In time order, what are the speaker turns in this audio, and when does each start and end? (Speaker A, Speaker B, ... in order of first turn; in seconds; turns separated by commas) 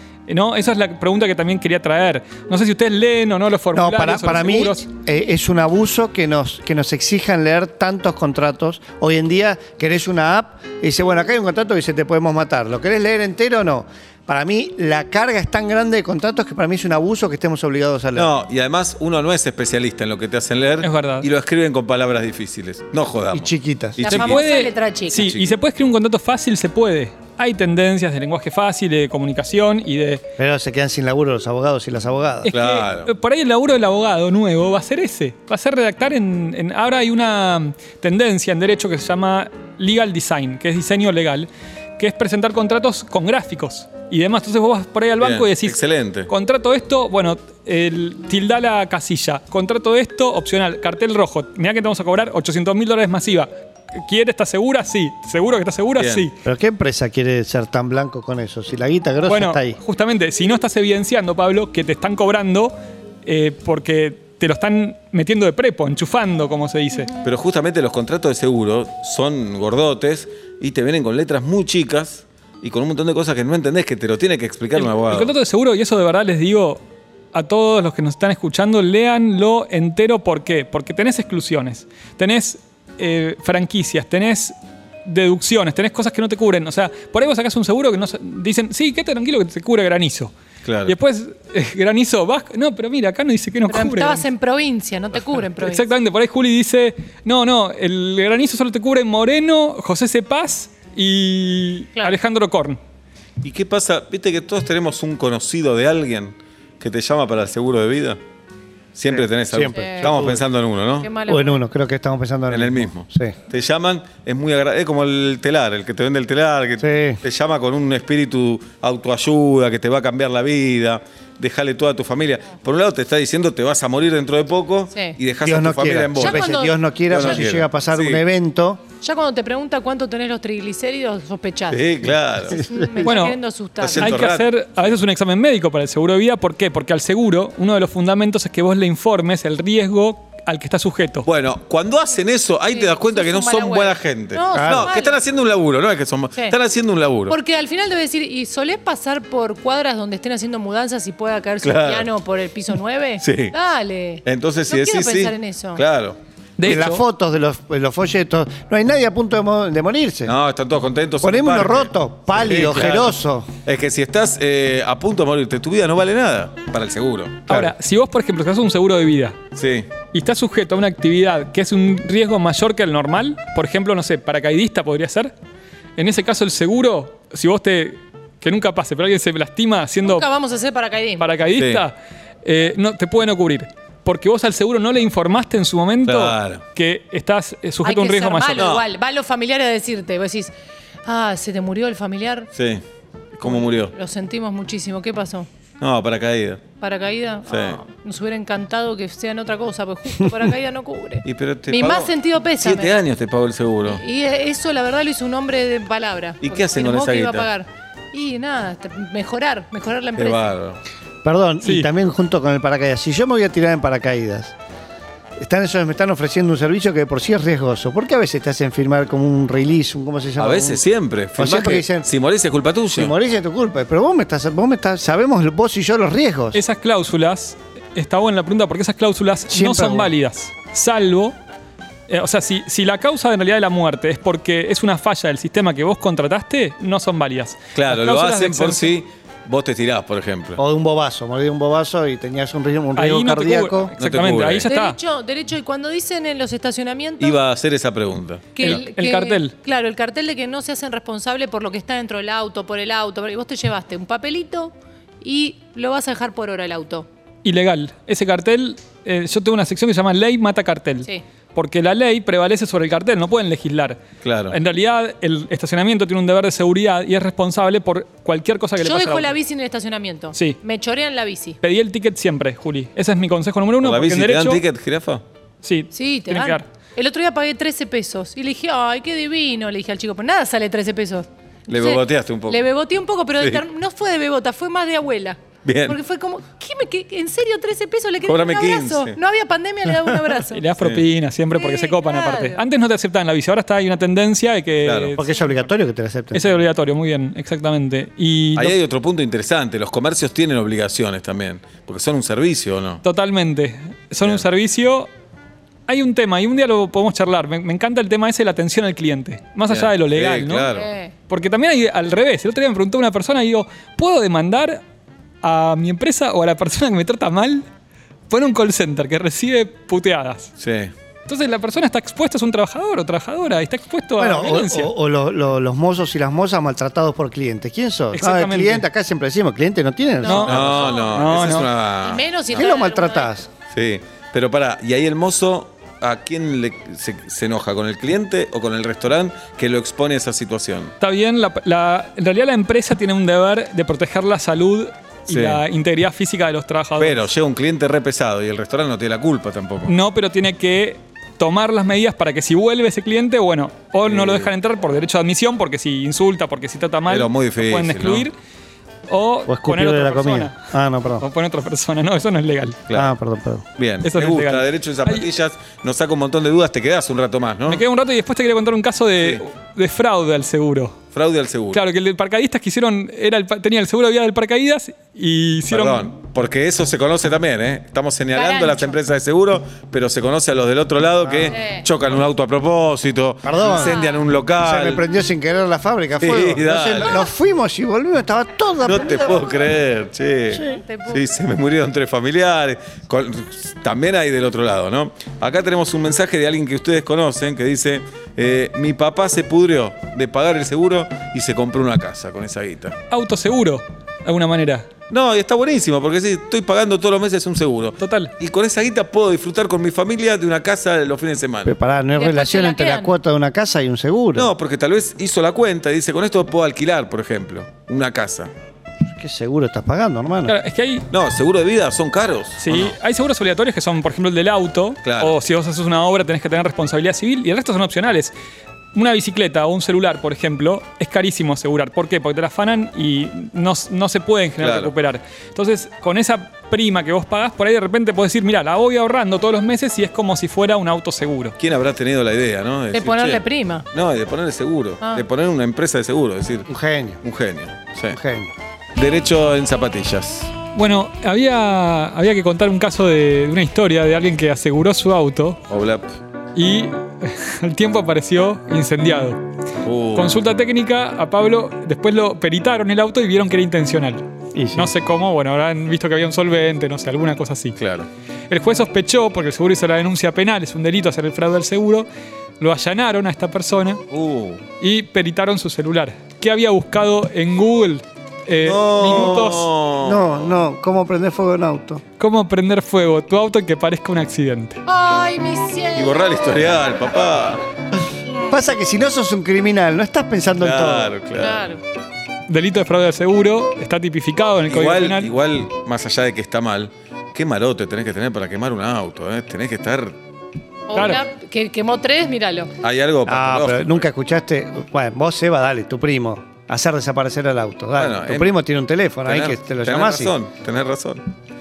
Speaker A: 0.3-4.8, Speaker B: 3.7-18.3, Speaker C: 18.1-25.5, Speaker A: 20.8-21.3, Speaker B: 23.3-24.0, Speaker D: 24.1-25.2, Speaker A: 24.1-30.2, Speaker B: 30.4-32.5, Speaker A: 32.4-56.3, Speaker C: 32.5-33.1, Speaker C: 45.2-46.3, Speaker C: 56.0-56.3, Speaker B: 56.4-59.8, Speaker A: 59.2-67.2, Speaker C: 67.2-75.3, Speaker A: 74.7-76.8, Speaker A: 77.3-90.3, Speaker C: 90.6-90.9, Speaker A: 90.8-94.2, Speaker D: 93.7-95.8, Speaker A: 95.6-102.8, Speaker C: 103.4-108.2, Speaker C: 108.9-111.1, Speaker B: 109.1-110.5, Speaker D: 109.7-110.1, Speaker D: 111.0-111.6, Speaker B: 111.3-113.3, Speaker C: 112.5-126.5, Speaker B: 116.8-117.2, Speaker B: 125.4-128.8, Speaker D: 126.2-127.4, Speaker C: 127.1-128.2, Speaker D: 129.0-131.8, Speaker C: 131.7-132.7, Speaker D: 132.5-134.2, Speaker A: 133.0-133.4, Speaker C: 133.8-134.8, Speaker A: 133.9-141.3, Speaker C: 141.2-147.3, Speaker D: 142.7-145.2, Speaker B: 144.5-144.9, Speaker D: 147.3-155.8, Speaker C: 151.6-152.1, Speaker C: 153.2-153.5, Speaker C: 154.2-156.2, Speaker A: 156.6-157.0, Speaker B: 156.6-160.3, Speaker C: 160.2-167.4, Speaker B: 161.2-163.5, Speaker A: 167.5-169.4, Speaker C: 169.5-169.9, Speaker A: 170.1-175.3, Speaker A: 175.9-180.3, Speaker D: 180.0-181.3, Speaker A: 181.2-188.7, Speaker C: 181.5-181.8, Speaker C: 186.0-186.6, Speaker D: 187.8-190.5, Speaker C: 188.6-188.8, Speaker D: 191.0-192.5, Speaker C: 192.5-192.8, Speaker C: 193.3-193.9, Speaker D: 193.4-195.5, Speaker C: 195.8-196.6, Speaker D: 196.8-203.0, Speaker C: 197.5-197.8, Speaker C: 201.2-204.0, Speaker D: 203.8-210.5, Speaker C: 206.4-207.5, Speaker C: 210.2-210.8, Speaker B: 211.2-214.5, Speaker A: 211.6-211.9, Speaker B: 215.4-220.8, Speaker C: 220.4-223.1, Speaker B: 221.4-222.1, Speaker B: 222.9-226.6, Speaker A: 226.5-231.4, Speaker B: 229.5-230.1, Speaker A: 232.1-239.0, Speaker C: 237.7-240.6, Speaker B: 240.6-243.9, Speaker A: 242.9-245.0, Speaker C: 244.0-244.7, Speaker D: 244.7-247.4, Speaker C: 247.2-248.8, Speaker D: 248.6-257.1, Speaker A: 248.6-249.5, Speaker A: 257.4-269.3, Speaker C: 264.2-264.6, Speaker D: 268.8-271.6, Speaker A: 270.3-270.6, Speaker A: 271.6-274.6, Speaker C: 273.8-275.2, Speaker A: 275.6-276.6, Speaker D: 275.9-290.7, Speaker C: 281.7-282.6, Speaker C: 283.4-283.6, Speaker C: 285.6-286.0, Speaker C: 288.2-289.2, Speaker A: 290.5-295.3, Speaker C: 290.8-291.0, Speaker D: 291.5-292.6, Speaker C: 294.8-295.1, Speaker B: 295.2-296.5, Speaker A: 296.3-298.8, Speaker C: 298.6-303.0, Speaker A: 303.0-305.1, Speaker A: 305.9-310.7, Speaker C: 309.7-310.9, Speaker D: 310.7-311.1, Speaker A: 311.3-314.8, Speaker A: 315.4-317.6, Speaker A: 318.3-320.5, Speaker C: 320.6-320.9, Speaker A: 321.2-324.9, Speaker B: 324.2-330.7, Speaker A: 328.1-328.8, Speaker D: 330.2-333.3, Speaker A: 330.2-331.7, Speaker C: 330.4-332.6, Speaker B: 332.5-333.5, Speaker C: 333.7-340.9, Speaker A: 341.0-347.2, Speaker C: 345.3-345.6, Speaker C: 347.0-349.9, Speaker A: 349.8-358.3, Speaker C: 354.1-354.5, Speaker C: 357.1-358.3, Speaker A: 359.1-360.5, Speaker B: 359.5-361.2, Speaker A: 361.2-362.8, Speaker C: 362.9-363.1, Speaker B: 362.9-363.6, Speaker C: 363.8-367.8, Speaker A: 364.0-365.2, Speaker A: 367.6-371.0, Speaker C: 371.1-371.8, Speaker A: 371.7-376.1, Speaker C: 375.7-385.0, Speaker D: 378.3-379.0, Speaker B: 381.2-381.5, Speaker D: 381.5-381.8, Speaker B: 383.4-384.0, Speaker D: 383.7-384.2, Speaker B: 384.6-389.4, Speaker C: 386.2-387.2, Speaker C: 388.8-403.0, Speaker B: 390.5-390.8, Speaker D: 390.8-391.2, Speaker A: 403.1-404.9, Speaker C: 405.1-411.8, Speaker A: 408.0-408.3, Speaker B: 411.6-414.5, Speaker D: 412.2-413.1, Speaker C: 414.3-418.5, Speaker B: 419.2-420.6, Speaker A: 420.4-421.1, Speaker C: 421.1-422.9, Speaker A: 422.6-428.3, Speaker C: 425.0-425.4, Speaker A: 428.9-441.6, Speaker C: 434.6-434.9, Speaker C: 441.6-446.7, Speaker D: 442.9-443.9, Speaker B: 446.7-447.2, Speaker C: 447.2-448.2, Speaker B: 448.1-448.5, Speaker C: 448.9-450.5, Speaker A: 450.7-455.6, Speaker C: 455.7-456.1, Speaker A: 456.5-459.4, Speaker C: 459.8-460.4, Speaker A: 460.1-467.8, Speaker B: 464.5-464.9, Speaker C: 467.8-468.1, Speaker A: 468.5-472.1, Speaker A: 472.6-474.0, Speaker C: 474.1-474.6, Speaker A: 474.8-479.7, Speaker C: 478.6-480.5, Speaker B: 480.0-482.0, Speaker A: 482.2-484.8, Speaker D: 484.9-486.6, Speaker C: 485.9-487.6, Speaker B: 488.5-491.1, Speaker C: 490.6-491.7, Speaker D: 491.4-491.8, Speaker A: 492.5-495.3, Speaker C: 494.7-500.1, Speaker D: 500.9-502.7, Speaker A: 500.9-501.2, Speaker C: 502.8-504.1, Speaker B: 503.2-510.3, Speaker C: 508.0-508.6, Speaker C: 509.2-511.2